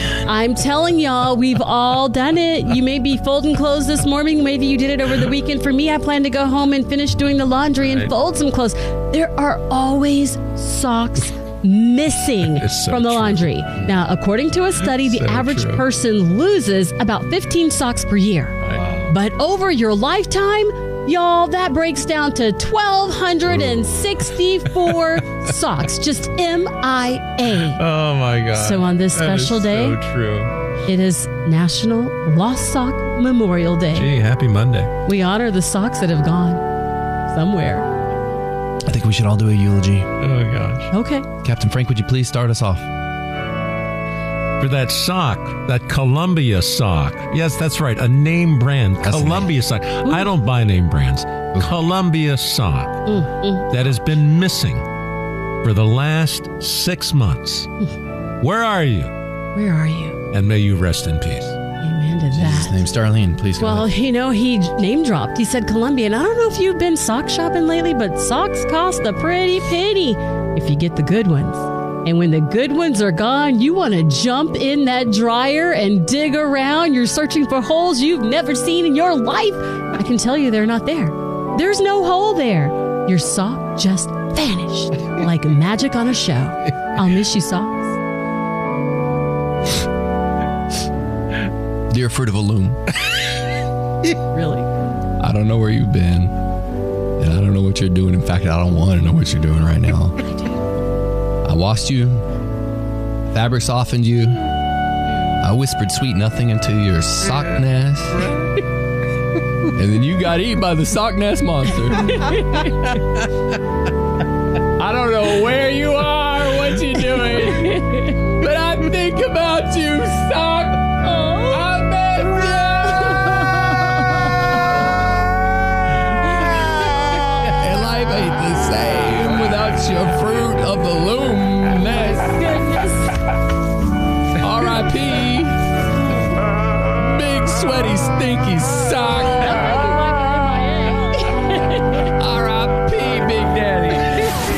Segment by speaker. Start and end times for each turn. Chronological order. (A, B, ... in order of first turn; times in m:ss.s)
0:00.2-0:27.8 A
0:07.8-0:08.1 B
0:12.4-0:13.9 B
0:14.8-0:15.8 B
0:18.6-0:19.1 B
0:27.7-0:30.5 B
0:28.5-0:30.0 A
0:30.9-0:34.1 A
0:33.9-0:34.9 B
0:35.0-0:36.6 A
0:37.3-0:37.9 A
0:38.8-0:40.1 C
0:40.2-0:40.9 B
0:40.9-0:41.2 A
0:41.4-0:42.9 C
0:44.6-0:53.0 B
0:49.0-0:49.5 C
0:53.1-0:53.7 A
0:53.7-0:54.8 B
0:55.6-0:57.7 B
0:58.4-0:59.1 B
0:59.5-1:00.2 A
1:00.3-1:01.6 B
1:01.8-1:02.8 A
1:02.3-1:03.9 C
1:03.6-1:27.9 A
1:31.9-1:32.8 C
1:34.3-1:34.7 A
1:35.2-1:36.3 C
1:37.2-1:40.2 C
1:41.4-1:42.2 C
1:43.3-1:44.4 C
1:45.4-1:48.3 C
1:49.6-1:52.3 C
1:52.1-1:52.7 A
1:54.8-1:57.8 C
1:57.2-1:58.2 A
1:58.4-2:00.9 C
2:01.0-2:01.7 A
2:01.4-2:03.4 C
2:03.0-2:04.4 A
2:07.4-2:12.4 C
2:12.2-2:13.0 A
2:14.4-2:15.6 C
2:16.9-2:19.8 C
2:19.4-2:22.1 A
2:22.1-2:24.3 C